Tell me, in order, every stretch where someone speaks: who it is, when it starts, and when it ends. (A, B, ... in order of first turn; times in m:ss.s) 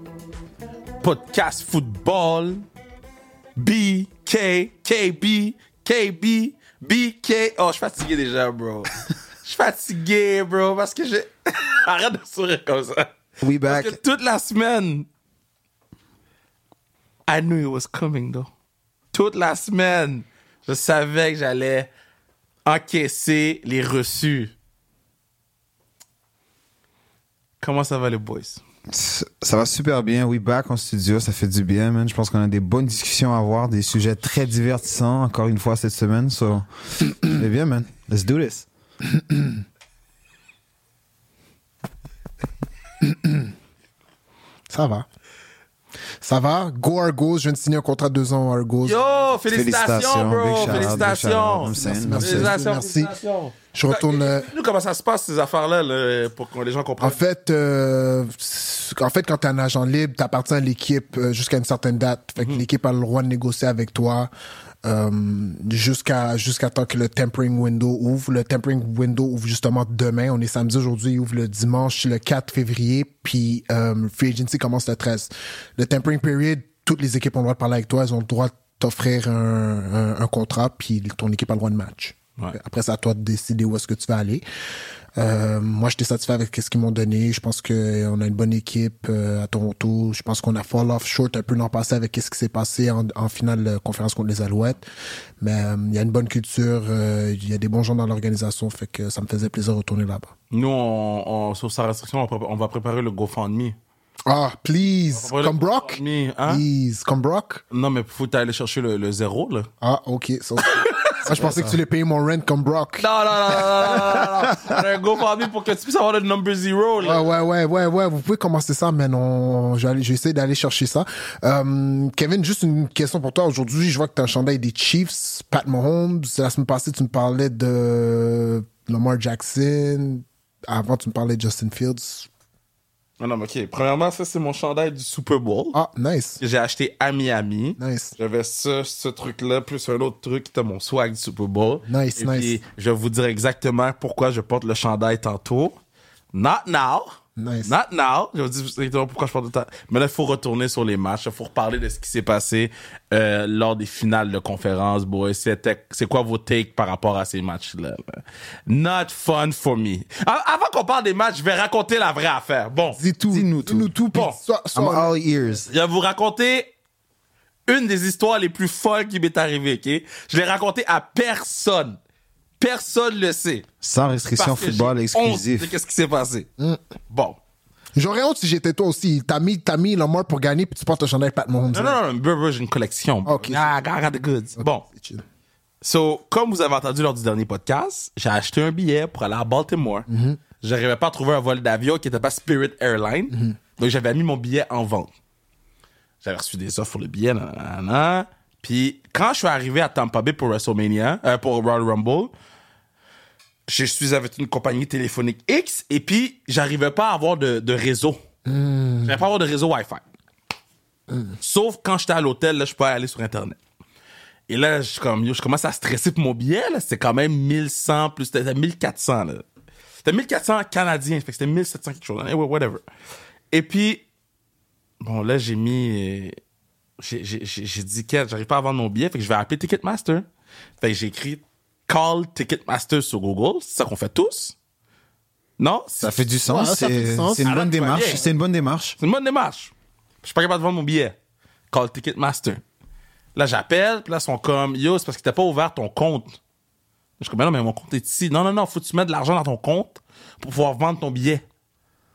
0:01.0-0:02.6 A
0:03.6-0:08.9 A
0:09.4-0:13.1 A
0:13.4-0:14.0 B
0:13.6-0:15.1 A
0:17.3-0:18.5 A
0:19.1-0:21.9 A
0:22.6-0:24.5 A
0:27.6-0:28.6 A
0:28.9-0:38.7 B
0:39.1-0:39.5 C
0:43.0-0:43.5 C
0:44.7-0:45.0 C
0:46.2-0:49.0 C
0:48.8-0:57.2 A
0:49.5-0:52.5 B
0:50.6-0:50.9 C
0:51.6-0:53.1 C
0:53.7-0:54.5 C
0:57.0-1:04.3 C
1:04.8-1:24.4 C
1:25.2-1:34.8 C
1:35.4-1:40.3 C
1:40.5-1:43.8 A
1:44.2-1:47.6 C
1:45.1-1:46.6 A
1:47.7-1:49.7 A
1:49.8-1:54.3 C
1:50.6-1:51.2 A
1:51.4-1:51.8 B
1:53.0-1:57.2 A
1:57.0-2:12.3 C
2:13.2-2:15.8 A
2:15.7-2:16.4 C
2:16.4-2:25.8 A
2:17.8-2:18.1 C
2:21.9-2:22.6 C
2:26.3-2:27.1 A
2:27.4-2:27.7 C
2:27.6-2:43.0 A
2:43.0-2:45.1 C
2:43.3-2:43.9 B
2:44.7-2:45.7 B
2:45.6-2:46.7 A
2:47.7-2:52.0 A
2:52.6-2:53.6 A
2:53.8-2:55.7 B
2:54.3-2:56.5 A
2:57.1-2:57.4 A
2:58.0-3:02.0 C
3:01.7-3:04.8 A
3:03.2-3:03.8 C
3:04.6-3:05.2 C
3:05.8-3:10.0 A
3:10.1-3:10.4 C
3:10.6-3:15.1 A
3:13.3-3:13.6 C
3:16.2-3:22.3 A
3:23.7-3:28.2 A
3:28.4-3:29.1 C
3:29.0-3:30.0 A
3:31.4-3:33.6 A
3:34.5-3:39.4 A
3:40.0-3:42.8 A
3:43.5-3:44.0 A
3:45.0-3:46.4 A
3:47.0-3:50.2 A
3:50.8-3:54.5 A
3:55.6-3:56.1 A
3:56.0-3:59.0 B
3:56.5-3:57.5 C
3:57.4-3:58.2 A
3:59.0-4:01.2 A
4:01.7-4:02.6 A
4:03.3-4:06.4 A
4:07.2-4:11.4 A